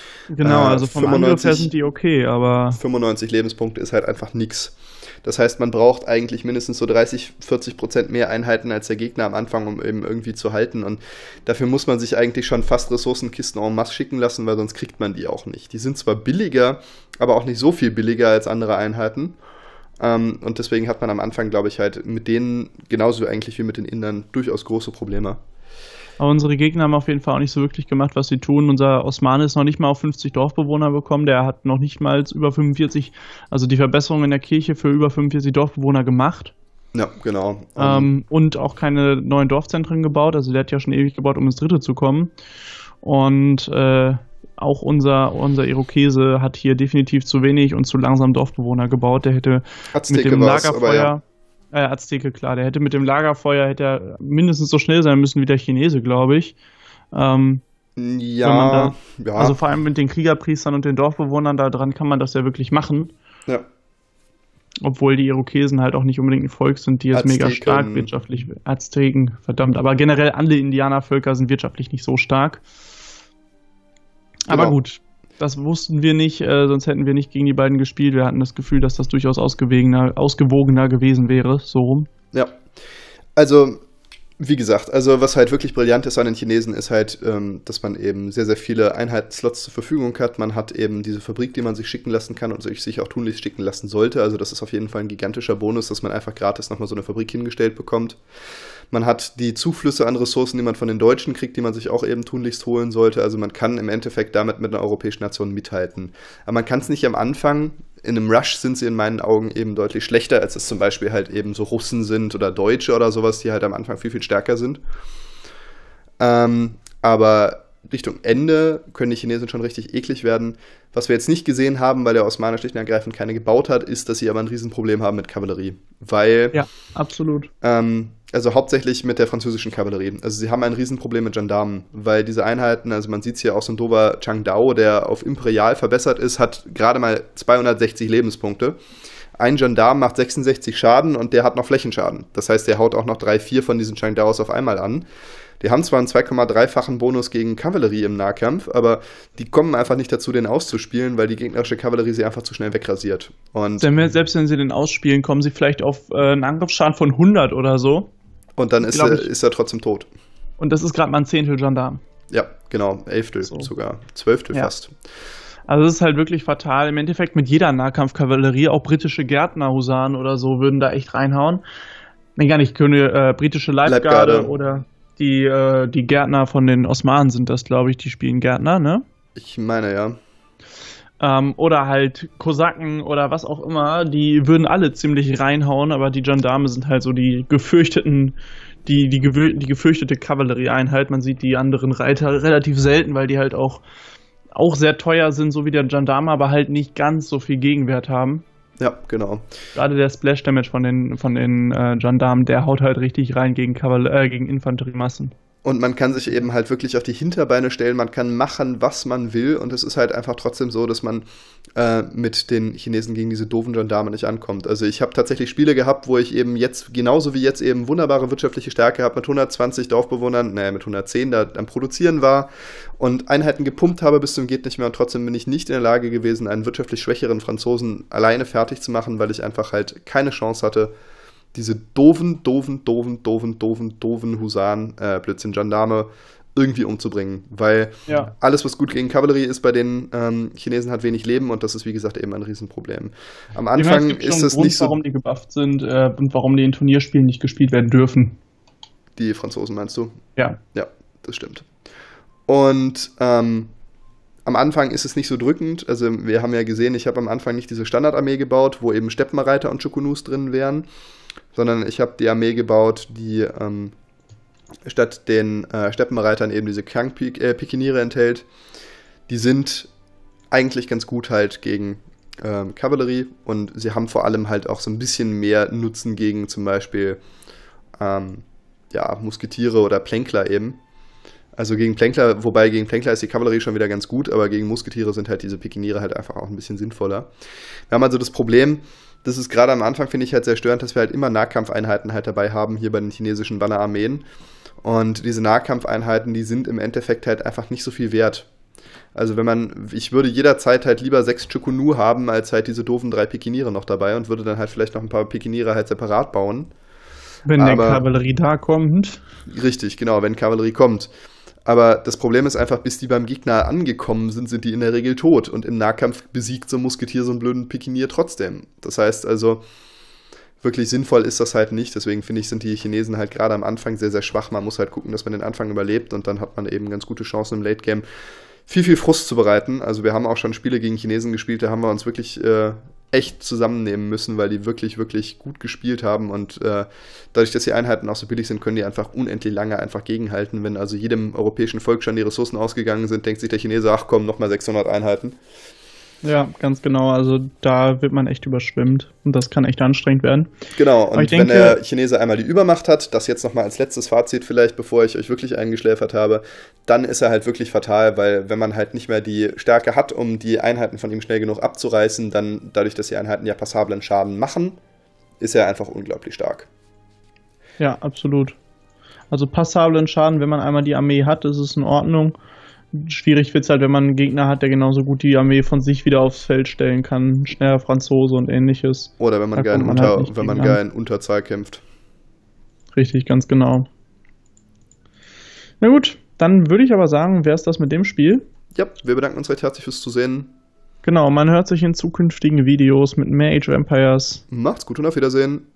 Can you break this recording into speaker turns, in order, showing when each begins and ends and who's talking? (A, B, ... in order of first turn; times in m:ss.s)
0:00.3-0:02.8 A
0:00.4-0:01.7 B
0:02.7-0:19.4 B
0:20.0-0:25.4 B
0:26.2-0:36.5 A
0:36.9-0:38.1 B
0:37.8-0:42.3 A
0:43.0-0:51.2 A
0:49.9-0:51.1 B
0:51.7-0:56.6 A
0:57.1-0:57.6 A
0:58.0-0:59.6 B
0:58.4-1:03.1 A
1:04.8-1:12.6 A
1:07.1-1:08.1 B
1:14.5-1:22.1 A
1:14.5-1:14.8 B
1:22.3-1:22.6 B
1:23.4-1:23.8 B
1:24.4-1:38.2 B
1:38.9-1:54.8 B
1:56.2-2:06.6 B
2:06.5-2:07.5 A
2:07.6-2:18.8 B
2:19.4-2:25.1 B
2:25.6-2:33.9 B
2:33.8-2:38.1 A
2:38.6-2:40.1 B
2:38.8-2:39.3 A
2:40.6-2:42.0 A
2:42.3-2:44.9 B
2:45.7-2:51.6 A
2:52.4-2:59.0 A
2:53.9-2:54.5 B
2:59.4-3:00.2 B
3:01.2-3:13.8 A
3:14.5-3:18.4 A
3:18.8-3:19.5 B
3:19.8-3:25.3 A
3:25.6-3:31.2 B
3:31.8-3:50.9 B
3:51.5-4:05.0 B
4:03.8-4:08.4 A
4:09.2-4:10.2 B
4:10.7-4:11.7 B
4:12.5-4:13.7 B
4:14.5-4:20.9 B
4:21.5-4:24.0 B
4:24.9-4:28.5 B
4:29.3-4:29.9 B
4:30.5-4:37.2 B
4:38.0-4:40.8 B
4:41.6-4:47.3 B
4:47.9-4:54.2 B
4:54.8-4:58.5 B
4:59.2-5:06.7 B
5:07.5-5:09.2 A
5:07.6-5:08.0 B
5:09.5-5:11.1 B
5:11.7-5:19.6 B
5:20.6-5:28.0 B
5:28.7-5:45.4 B
5:46.2-5:50.5 A
5:50.8-6:04.8 B
5:51.1-5:51.8 A
6:05.4-6:06.7 B
6:07.8-6:08.6 A
6:09.3-6:12.4 A
6:12.9-6:20.8 A
6:19.2-6:21.8 B
6:22.9-6:23.9 A
6:25.8-6:28.4 A
6:28.8-6:30.5 B
6:31.0-6:34.4 A
6:34.5-6:35.7 B